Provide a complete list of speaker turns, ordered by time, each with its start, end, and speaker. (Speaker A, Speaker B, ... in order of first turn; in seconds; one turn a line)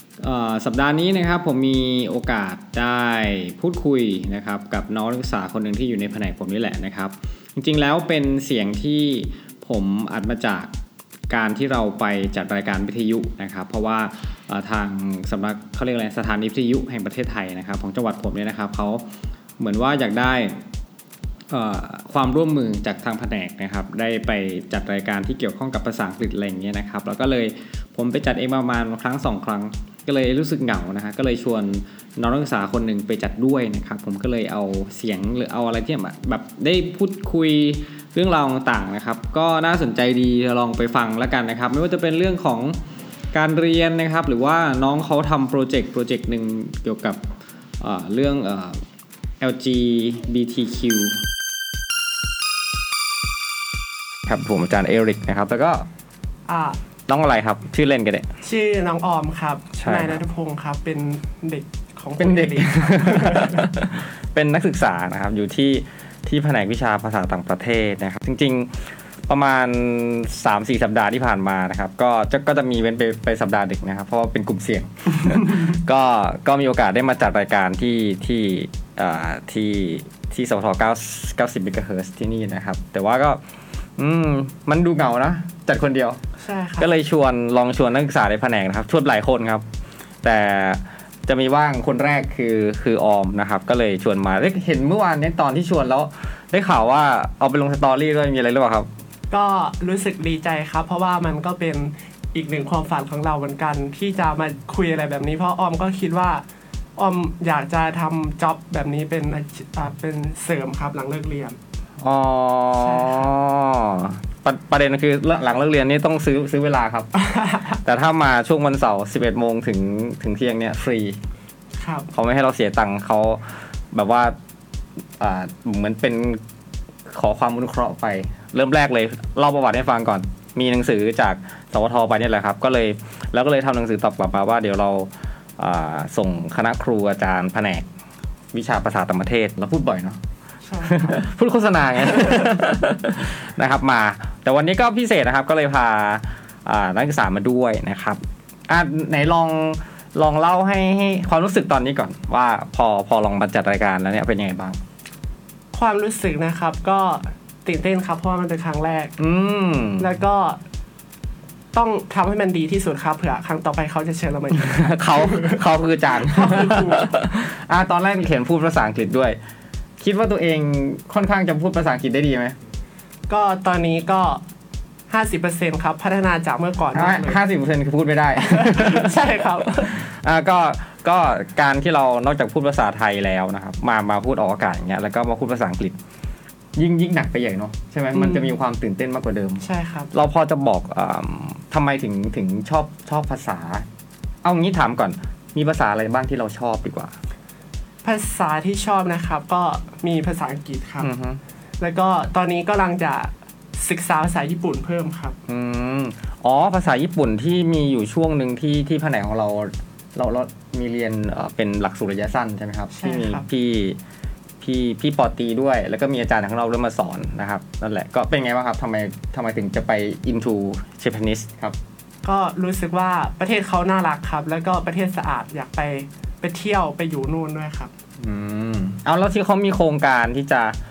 Speaker A: 0.2-10.7
Speaker A: 11.3-19.0
Speaker A: 19.6-20.6
Speaker A: 21.5-42.8
Speaker A: 43.3-47.2
Speaker A: 47.8-48.8
Speaker A: 49.4-51.2
Speaker A: 54.2-55.9
Speaker B: 56.5-56.8
Speaker A: 57.1-58.3
Speaker B: 58.4-63.6
Speaker A: 59.7-60.2
Speaker A: 62.2-83.4
Speaker A: 84.0-86.2
Speaker B: 86.4-86.9
Speaker A: 86.8-89.6
Speaker A: 90.2-98.9
Speaker B: 99.3-106.4
Speaker B: 107.0-111.6
Speaker A: 112.0-117.1
Speaker B: 112.8-113.3
Speaker B: 117.2-117.8
Speaker A: 117.8-121.2
Speaker B: 121.8-122.1
Speaker A: 122.1-124.3
Speaker A: 125.2-126.4
Speaker A: 127.1-137.8
Speaker A: 138.5-140.2
Speaker B: 140.7-141.2
Speaker A: 140.8-154.8
Speaker B: 155.7-159.1
Speaker A: 159.2-160.1
Speaker B: 160.0-160.6
Speaker B: 161.7-165.6
Speaker A: 164.5-169.4
Speaker B: 166.2-167.1
Speaker A: 170.0-172.6
Speaker B: 173.3-174.4
Speaker B: 175.1-177.4
Speaker A: 176.9-186.0
Speaker B: 178.5-180.0
Speaker A: 186.8-193.8
Speaker B: 188.1-188.5
Speaker B: 189.6-190.1
Speaker A: 194.4-197.1
Speaker B: 198.0-201.1
Speaker A: 201.0-201.4
Speaker B: 201.8-205.3
Speaker A: 205.5-214.0
Speaker B: 212.9-213.4
Speaker A: 214.6-221.8
Speaker B: 222.2-227.9
Speaker A: 228.2-230.8